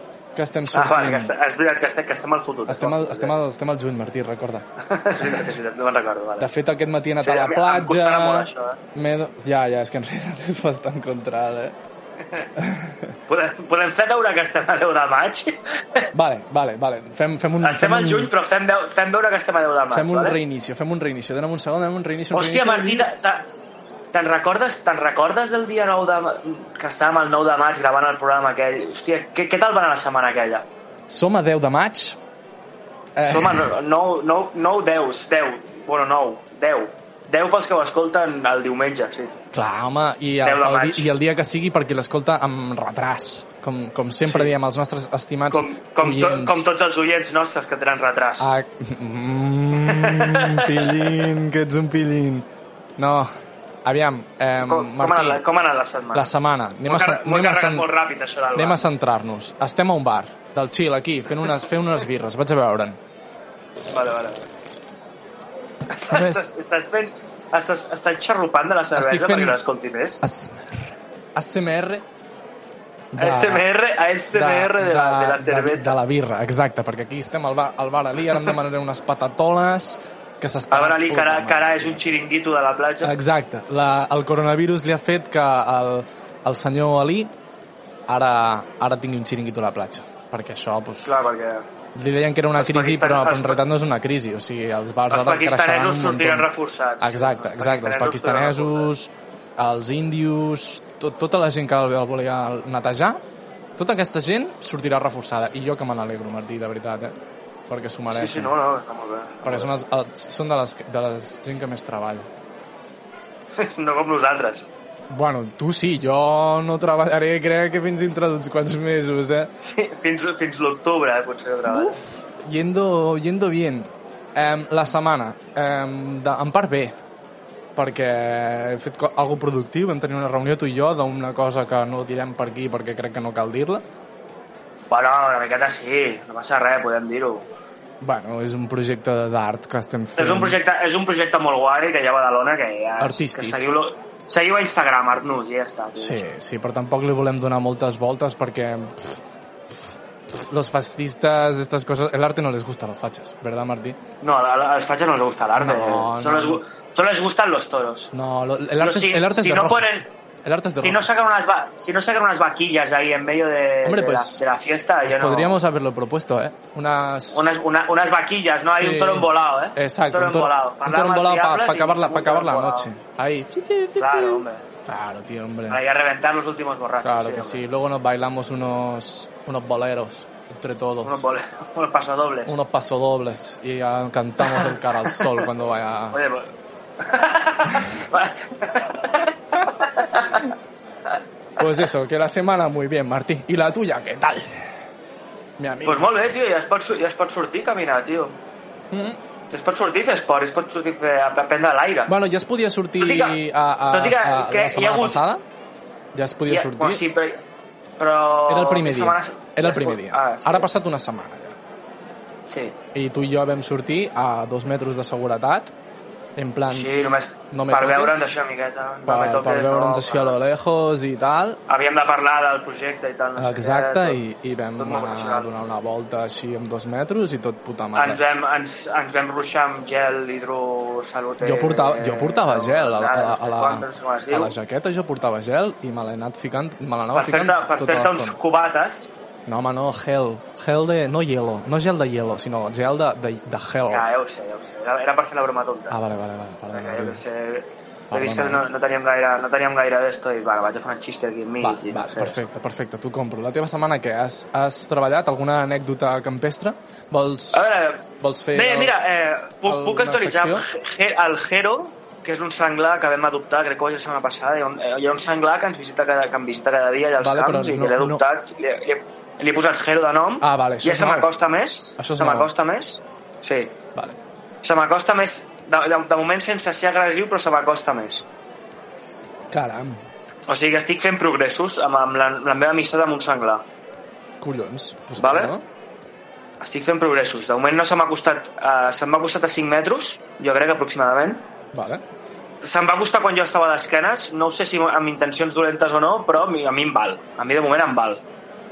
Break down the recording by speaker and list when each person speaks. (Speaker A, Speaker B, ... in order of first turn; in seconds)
Speaker A: 0.3-1.3, 2.7-5.4, 6.4-11.8, 12.6-13.1, 16.1-18.3, 19.9-23.1, 31.1-32.2, 33.1-33.7, 39.5-46.6, 48.4-53.3, 53.8-55.4, 56.1-57.9, 58.5-63.0, 66.1-66.5, 68.9-69.6, 70.2-72.0, 73.1-73.6, 74.3-82.0, 83.0-87.3, 88.1-91.2, 91.9-96.5, 97.0-103.2, 103.8-107.1, 107.7-108.5, 109.4-112.3, 115.1-119.5, 121.7-126.9, 127.8-133.8, 138.0-140.6, 143.0-143.7, 146.0-154.0, 155.6-156.6, 158.1-161.2, 163.8-164.4, 165.0-167.5, 168.8-175.8, 177.0-181.2, 182.5-186.2, 191.6-194.8, 195.6-196.3, 198.9-199.2, 202.1-205.4, 206.1-207.0, 208.5-211.6, 212.9-215.7, 216.3-218.3, 219.1-221.6, 223.4-228.2, 231.4-238.4, 239.4-244.1, 245.9-247.2, 248.1-248.6, 251.6-257.7, 258.2-258.9, 259.6-260.6, 267.2-268.2, 270.4-271.3, 272.0-272.5, 279.5-280.0, 284.4-285.6, 291.7-292.0
Speaker B: 0.7-3.3, 4.8-6.5, 7.2-8.8, 13.3-16.1, 17.6-20.4, 22.3-23.5, 24.1-30.6, 33.2-39.4, 40.4-41.1, 44.3-44.5, 45.5-48.5, 49.8-51.3, 54.6-56.3, 56.9-58.8, 63.9-64.4, 65.9-70.2, 73.2-76.0, 80.7-83.1, 91.0-91.6, 92.6-93.6, 95.1-98.9, 108.1-109.7, 113.6-114.7, 119.6-122.0, 134.9-137.5, 140.2-146.3, 154.2-158.1, 158.8-160.1, 160.8-165.6, 167.3-172.9, 174.0-174.6, 175.7-177.6, 181.0-182.5, 184.4-185.5, 186.1-190.5, 195.8-198.4, 199.5-202.1, 203.0-203.4, 203.9-205.2, 206.5-207.4, 208.0-210.7, 212.5-212.8, 216.7-220.4, 221.7-224.2, 224.8-225.5, 227.9-234.5, 237.1-239.1, 243.9-245.9, 246.7-252.4, 257.5-273.8, 274.6-278.2, 280.5-283.6, 285.2-285.5, 286.6-291.4, 292.6-298.2